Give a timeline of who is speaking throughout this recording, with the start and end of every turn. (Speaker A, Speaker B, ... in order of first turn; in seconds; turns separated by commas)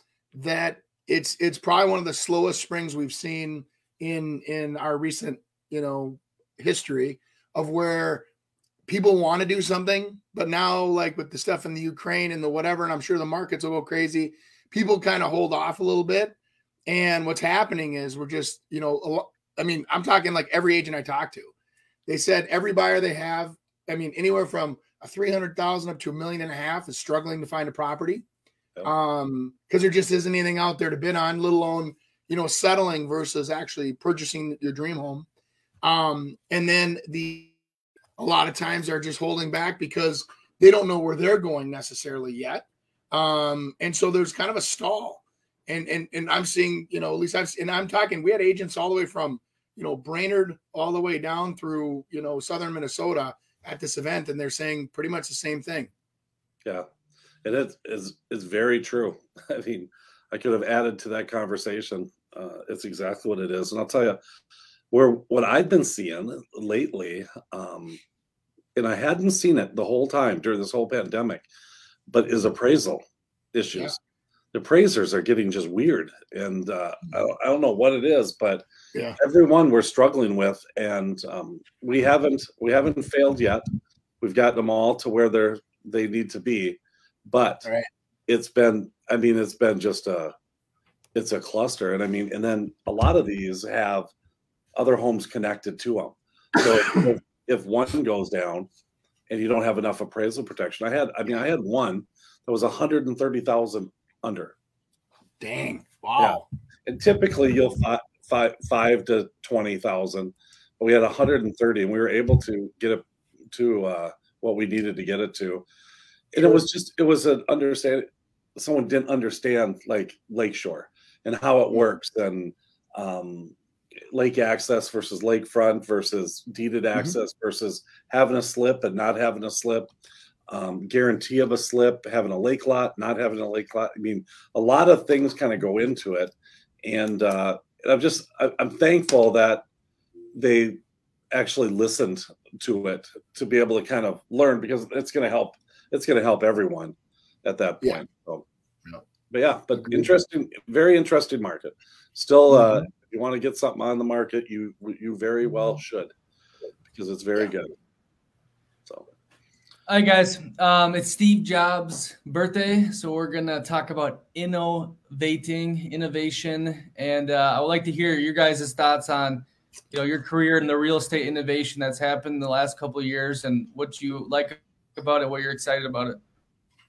Speaker A: 0.3-8.3, Speaker A: 8.9-16.4, Speaker A: 16.9-21.5, Speaker A: 22.1-28.2, Speaker A: 28.9-35.3, Speaker A: 35.8-37.5, Speaker A: 38.2-55.9, Speaker B: 57.4-64.2, Speaker B: 64.9-68.0, Speaker B: 68.8-71.5, Speaker B: 72.1-74.0, Speaker B: 74.5-78.7, Speaker B: 79.2-83.6, Speaker B: 84.2-87.7, Speaker B: 88.3-90.3, Speaker B: 91.2-94.1, Speaker B: 94.8-98.7, Speaker B: 99.3-104.5, Speaker A: 105.4-106.5, Speaker B: 106.2-115.7, Speaker B: 116.3-123.5, Speaker A: 116.4-116.6, Speaker B: 124.1-129.9, Speaker B: 130.5-136.3, Speaker B: 136.8-139.7, Speaker B: 140.3-140.8, Speaker B: 141.3-148.4, Speaker B: 149.3-156.1, Speaker A: 152.5-152.8, Speaker B: 156.9-157.7, Speaker C: 159.9-176.2